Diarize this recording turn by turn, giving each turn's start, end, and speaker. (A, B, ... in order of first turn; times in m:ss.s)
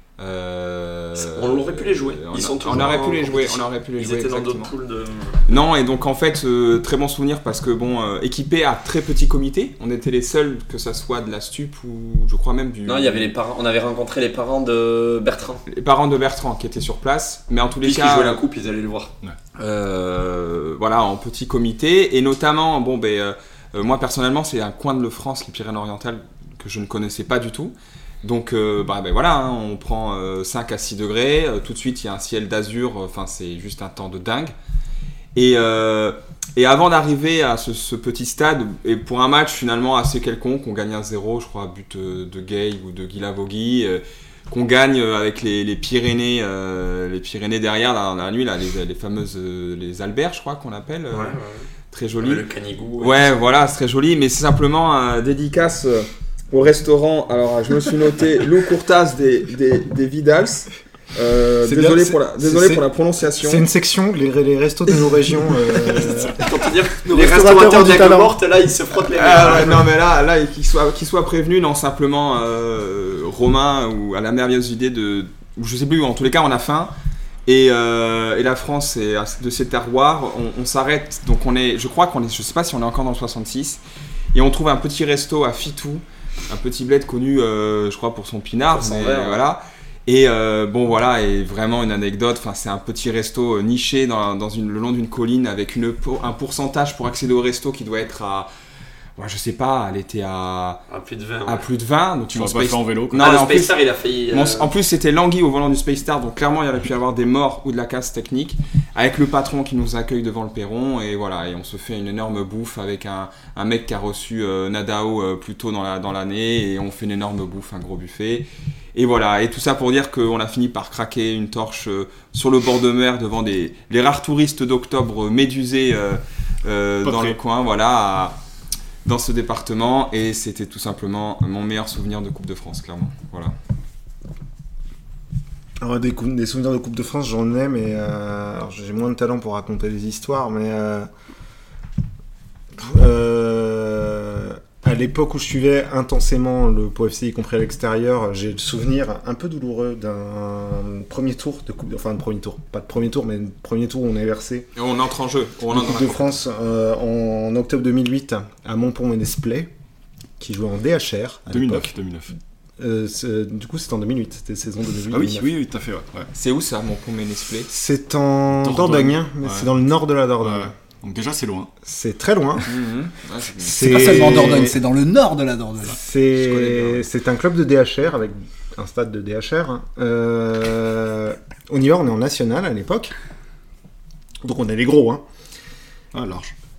0:00.2-0:04.7 A
0:01.2-0:05.4 B
0:05.5-0:13.3 A
0:12.8-0:15.6 B
0:15.7-0:18.4 A
0:17.8-0:19.1 B
0:19.6-0:34.5 A
0:35.3-0:51.4 A
0:51.1-0:51.7 B
0:51.9-0:52.4 A
0:52.2-0:53.4 B
0:53.0-1:03.6 A
1:01.6-1:02.8 C
1:03.4-1:06.4 C
1:06.0-1:06.3 D
1:06.3-1:09.8 B
1:07.0-1:08.4 C
1:09.1-1:16.9 A
1:17.4-1:23.8 A
1:24.3-1:38.5 A
1:28.6-1:29.4 B
1:39.2-1:40.8 A
1:40.9-1:41.7 B
1:41.4-1:43.8 A
1:42.3-1:43.3 D
1:43.2-1:44.7 B
1:44.3-2:08.4 A
2:07.0-2:07.4 D
2:09.0-2:13.5 A
2:15.8-2:21.1 C
2:22.8-2:34.7 C
2:34.8-2:36.3 A
2:35.7-2:39.7 C
2:40.4-2:41.9 C
2:41.5-2:42.3 D
2:42.8-2:45.5 C
2:45.1-2:46.3 D
2:46.3-2:47.7 A
2:47.7-2:50.7 C
2:48.5-2:49.7 D
2:50.4-2:51.7 D
2:51.8-2:52.7 C
2:52.6-2:54.6 A
2:53.6-2:54.8 C
2:53.8-2:56.0 E
2:55.9-3:03.1 C
2:56.4-2:57.0 A
3:04.4-3:05.2 C
3:06.1-3:06.5 D